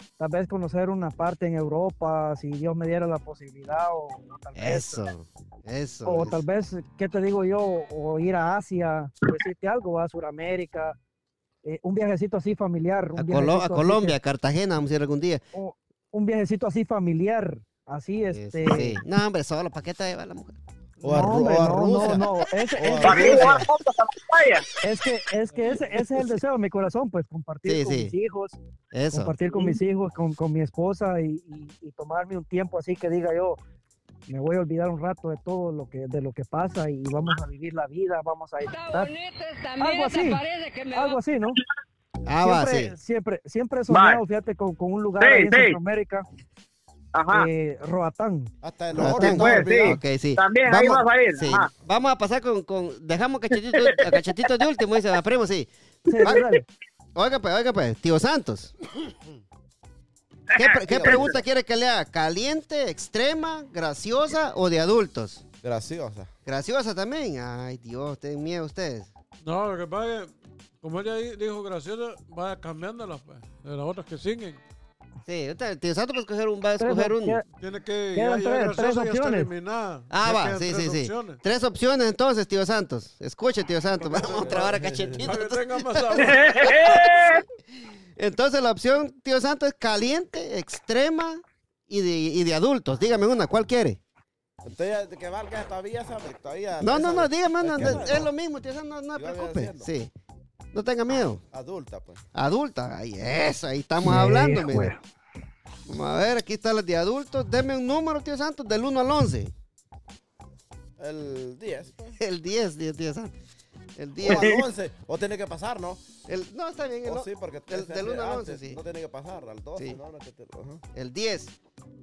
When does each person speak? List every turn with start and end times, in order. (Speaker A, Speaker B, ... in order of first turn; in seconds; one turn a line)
Speaker A: 0.2-5.0
Speaker B: 4.5-6.4
Speaker A: 6.0-11.0
Speaker A: 11.6-14.2
Speaker B: 13.1-15.4
Speaker A: 15.5-19.0
Speaker B: 18.3-20.6
Speaker A: 21.0-23.4
Speaker C: 21.0-23.6
Speaker D: 23.0-24.6
Speaker A: 24.8-28.6
Speaker B: 27.6-28.1
Speaker B: 28.9-29.3
Speaker A: 29.1-33.6
Speaker A: 34.3-39.1
Speaker E: 38.6-41.2
Speaker A: 39.8-41.6
Speaker B: 42.2-42.9
Speaker A: 42.4-46.2
Speaker D: 43.9-44.2
Speaker D: 45.2-45.8
Speaker D: 47.1-47.5
Speaker A: 47.3-48.5
Speaker C: 48.6-50.0
Speaker B: 48.9-55.7
Speaker D: 49.2-51.7
Speaker D: 53.8-54.2
Speaker A: 56.1-56.6
Speaker D: 56.2-56.5
Speaker B: 57.1-58.7
Speaker D: 60.5-61.3
Speaker B: 60.5-65.4
Speaker C: 60.9-61.4
Speaker C: 65.6-66.3
Speaker B: 66.5-69.1
Speaker F: 69.4-74.6
Speaker B: 75.2-77.4
Speaker A: 76.8-77.4
Speaker F: 77.6-81.4
Speaker A: 78.1-79.5
Speaker B: 80.1-87.4
Speaker C: 84.0-85.3
Speaker F: 85.2-86.9
Speaker D: 86.2-87.4
Speaker B: 88.2-94.0
Speaker C: 94.6-98.3
Speaker B: 96.8-100.1
Speaker C: 99.1-99.9
Speaker B: 100.7-101.4
Speaker C: 101.5-102.2
Speaker B: 102.3-104.9
Speaker A: 104.0-105.0
Speaker B: 105.9-109.5
Speaker C: 111.0-111.9
Speaker B: 112.1-113.3
Speaker B: 114.0-114.6
Speaker C: 114.2-116.0
Speaker B: 116.3-118.8
Speaker C: 117.0-120.8
Speaker B: 120.9-121.5